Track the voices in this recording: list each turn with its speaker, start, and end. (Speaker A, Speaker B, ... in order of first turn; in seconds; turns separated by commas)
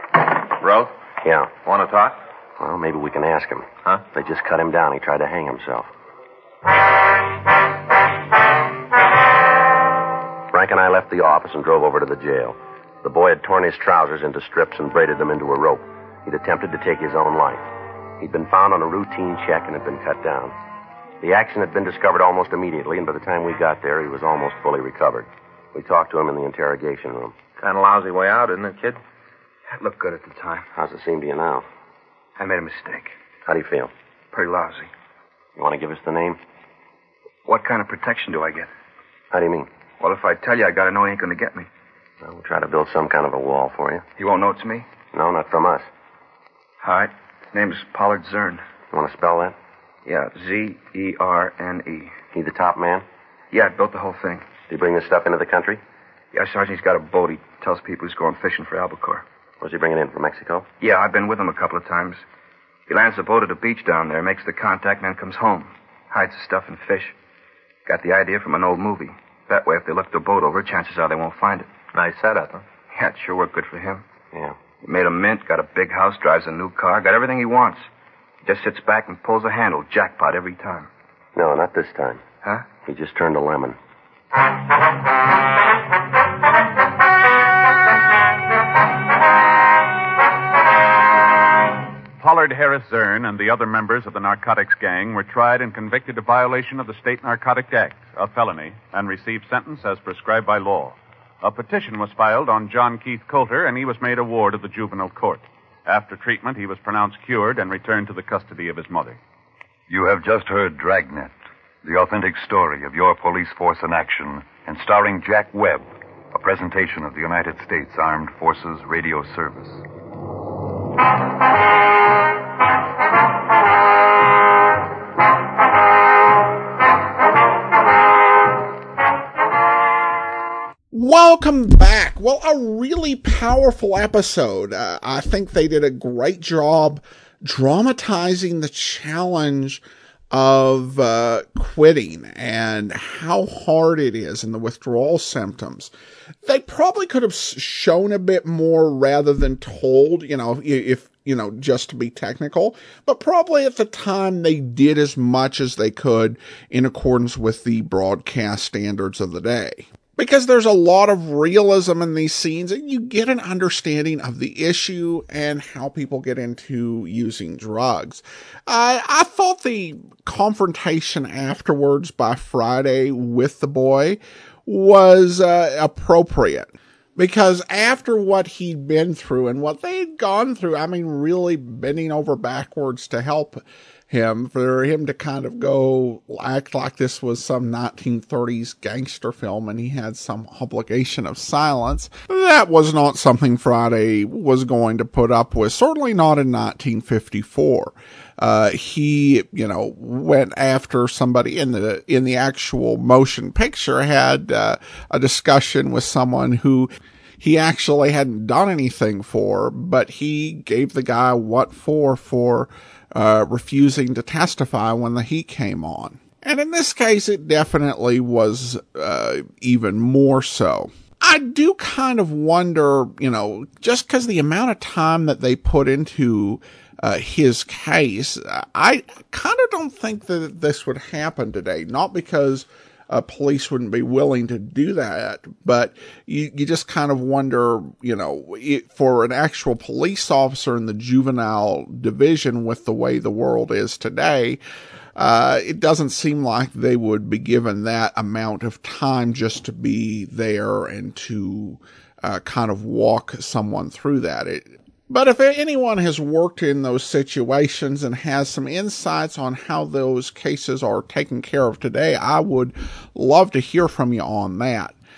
Speaker A: 0.6-0.9, Speaker B: 1.2-1.5, Speaker A: 1.6-2.2, Speaker B: 2.6-5.9, Speaker B: 10.5-17.6, Speaker B: 18.2-20.5, Speaker B: 21.2-27.3, Speaker A: 27.6-29.0, Speaker C: 29.7-30.7, Speaker B: 30.7-31.6, Speaker C: 32.4-33.1, Speaker B: 33.5-33.9, Speaker C: 34.3-34.9, Speaker B: 35.6-36.4, Speaker C: 37.4-38.7, Speaker B: 39.3-39.7, Speaker C: 40.0-41.7, Speaker B: 42.2-44.0, Speaker C: 44.2-44.9, Speaker B: 45.1-45.9, Speaker C: 46.8-48.6, Speaker B: 48.9-49.5, Speaker C: 50.0-52.2, Speaker B: 52.3-53.0, Speaker C: 53.5-54.4, Speaker B: 54.7-55.8, Speaker C: 56.3-59.2, Speaker B: 59.6-60.7, Speaker C: 60.8-62.2, Speaker C: 62.9-67.1, Speaker C: 67.8-71.7, Speaker A: 71.9-72.6, Speaker C: 72.9-74.0, Speaker C: 74.8-77.9, Speaker C: 78.4-80.9, Speaker B: 81.3-82.2, Speaker C: 82.4-82.7, Speaker B: 82.8-83.8, Speaker D: 92.2-109.2, Speaker E: 109.9-119.8, Speaker F: 130.9-145.9, Speaker F: 146.4-244.6, Speaker F: 245.2-264.9